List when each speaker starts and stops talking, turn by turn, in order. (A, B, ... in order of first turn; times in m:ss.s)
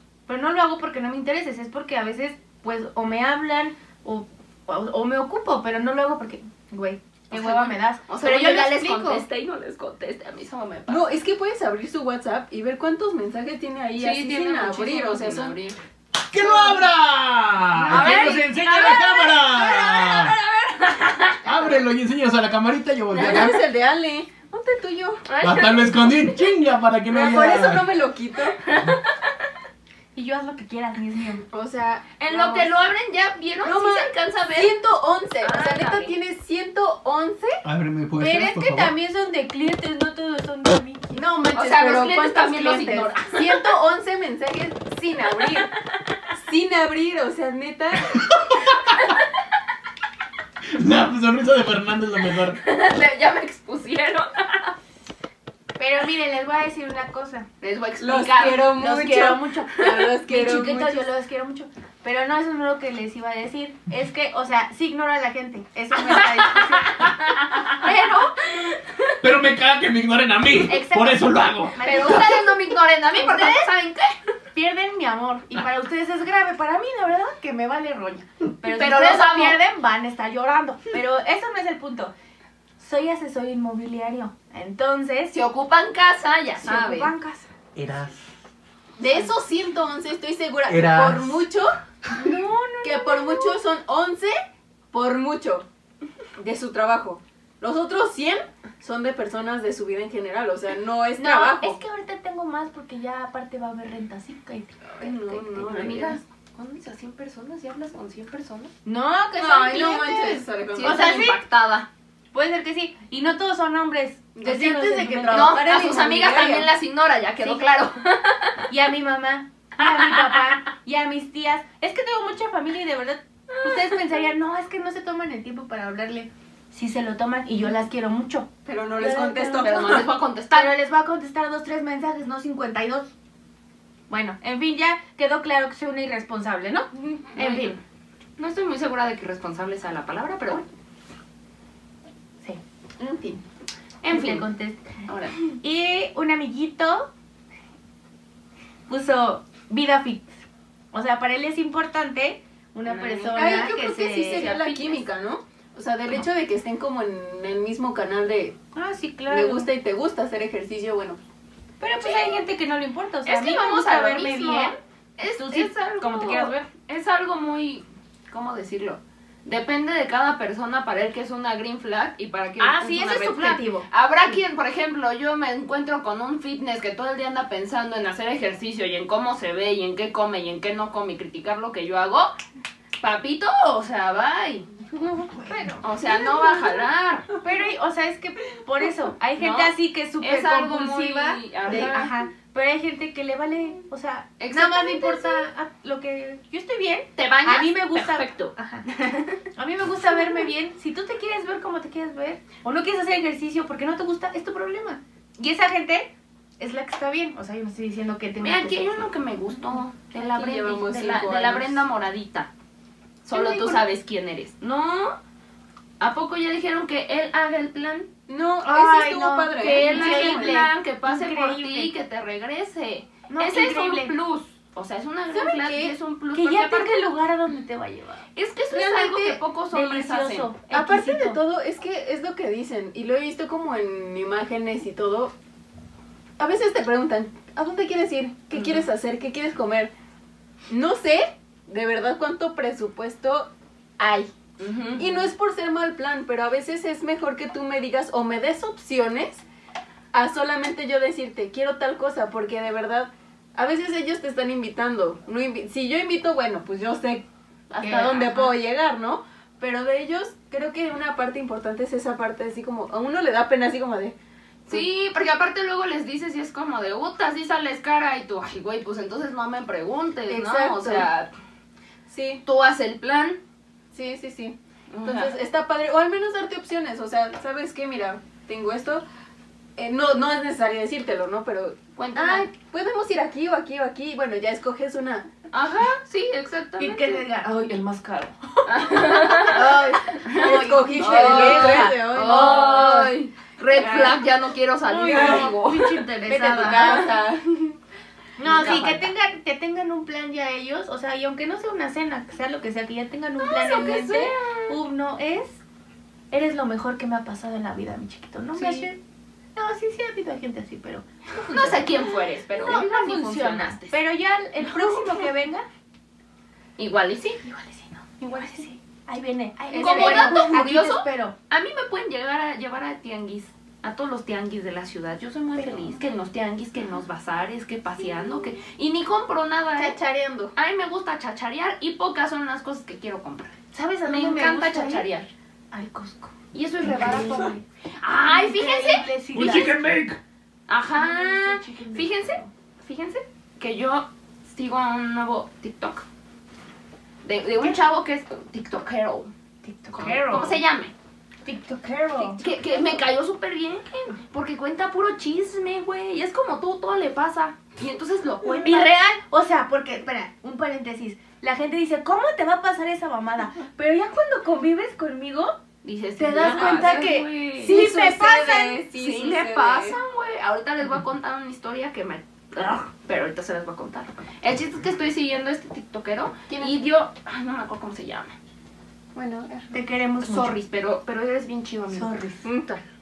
0:00.3-0:09.2 A
0:07.3-0:11.1 B
0:10.9-0:15.6 C
0:14.0-0:15.8 B
0:16.3-0:20.3 D
0:17.8-0:18.4 A
0:17.9-0:21.4 B
0:21.4-0:23.6 D
0:23.1-0:23.5 B
0:23.1-0:25.2 C
0:25.3-0:26.7 B
0:25.4-0:27.9 D
0:27.1-0:28.6 C
0:28.6-0:29.0 B
0:30.1-0:31.4 A
0:31.5-0:32.8 C
0:32.2-0:34.8 B
0:33.6-0:37.6 C
0:35.4-0:36.2 B
0:37.6-0:38.9 D
0:38.1-0:41.2 A
0:41.1-0:45.7 C
0:41.5-0:43.6 B
0:46.3-0:48.3 C
0:50.7-0:52.6 D
0:52.6-0:54.7 B
0:55.8-0:57.5 A
0:57.6-0:58.7 B
0:58.0-1:01.1 C
0:58.8-1:07.1 A
1:06.1-1:09.1 B
1:07.6-1:08.3 A
1:09.2-1:12.2 D
1:10.7-1:12.6 A
1:11.8-1:14.1 B
1:13.1-1:13.7 A
1:14.5-1:22.1 A
1:18.7-1:19.6 B
1:22.8-1:25.4 A
1:25.3-1:27.1 B
1:26.6-1:27.5 A
1:27.7-1:28.2 D
1:29.0-1:31.7 C
1:30.7-1:31.4 D
1:32.1-1:33.5 A
1:32.8-1:34.3 C
1:34.9-1:35.6 C
1:36.4-1:41.8 C
1:41.2-1:45.2 A
1:45.0-1:46.2 C
1:45.0-1:48.7 B
1:48.8-1:51.4 A
1:49.4-1:51.2 C
1:50.7-1:51.9 B
1:52.3-1:55.6 A
1:54.3-1:56.7 C
1:55.3-1:58.6 B
1:57.4-1:57.7 A
1:58.7-2:10.0 A
1:59.8-2:00.4 B
2:08.6-2:10.1 C
2:09.6-2:10.8 B
2:10.5-2:13.1 A
2:14.1-2:17.8 A
2:17.4-2:17.8 B
2:18.4-2:20.6 B
2:23.0-2:23.4 C
2:24.0-2:24.9 A
2:24.1-2:24.4 B
2:25.1-2:25.4 B
2:25.5-2:27.1 A
2:28.9-2:34.5 A
2:32.8-2:35.0 B
2:33.3-2:38.6 C
2:38.7-2:39.7 A
2:39.3-2:41.2 C
2:41.8-2:46.7 A
2:43.2-3:02.3 B
2:52.6-2:53.9 A
3:03.0-3:04.7 B
3:05.2-3:06.4 A
3:05.8-3:07.3 B
3:07.4-3:18.9 A
3:09.4-3:12.1 B
3:11.7-3:12.1 C
3:14.4-3:15.5 B
3:17.2-3:19.4 B
3:19.5-3:29.1 A
3:28.4-3:32.5 B
3:30.2-3:31.8 C
3:33.2-3:35.2 B
3:33.3-3:33.8 A
3:36.0-3:38.1 B
3:38.3-3:40.6 C
3:38.6-3:41.9 A
3:39.6-3:47.1 B
3:43.3-3:44.1 A
3:45.3-3:46.0 C
3:46.3-3:51.4 A
3:48.4-3:50.5 B
3:50.7-3:55.3 C
3:56.4-3:59.9 C
3:58.5-3:58.9 B
4:00.7-4:04.3 C
4:04.6-4:05.1 B
4:05.0-4:09.4 C
4:10.1-4:17.2 C
4:17.8-4:18.5 A
4:17.8-4:24.1 C
4:24.7-4:31.3 B
4:30.3-4:31.1 C
4:32.1-4:32.4 C
4:32.4-4:33.4 B
4:33.9-4:39.0 C
4:34.9-4:35.4 B
4:39.8-4:45.3 C
4:42.0-4:42.5 B
4:45.5-4:47.3 B
4:46.8-4:53.1 A
4:48.6-4:57.2 B
4:49.5-4:53.0 C
4:53.7-4:54.2 A
4:54.8-4:57.1 A
4:55.1-4:55.5 C
4:56.4-4:57.8 C
4:58.4-5:05.6 A
4:58.4-4:59.1 B
5:03.4-5:04.7 B
5:06.3-5:09.0 A
5:08.5-5:08.9 B
5:09.5-5:15.6 A
5:11.4-5:14.0 B
5:14.6-5:15.3 B
5:16.8-5:17.4 B
5:17.2-5:21.3 A
5:18.4-5:18.7 B
5:19.7-5:20.6 C
5:19.7-5:30.0 B
5:25.6-5:25.9 A
5:29.8-5:30.5 C
5:30.6-5:35.3 B
5:33.7-5:35.1 A
5:35.7-5:37.6 A
5:36.5-5:39.6 B
5:38.2-5:39.8 A
5:39.3-5:40.2 D
5:40.7-5:46.0 B
5:40.9-5:42.5 A
5:47.2-5:49.3 B
5:49.6-5:50.6 A
5:49.9-5:50.9 B
5:51.4-5:52.4 A
5:52.2-5:59.0 B
5:58.6-6:05.6 A
6:05.8-6:07.8 B
6:06.2-6:08.8 A
6:06.5-6:10.0 C
6:08.9-6:18.3 B
6:16.5-6:16.7 C
6:19.1-6:19.8 C
6:19.7-6:20.6 A
6:20.2-6:22.2 B
6:21.9-6:22.4 A
6:22.4-6:22.8 C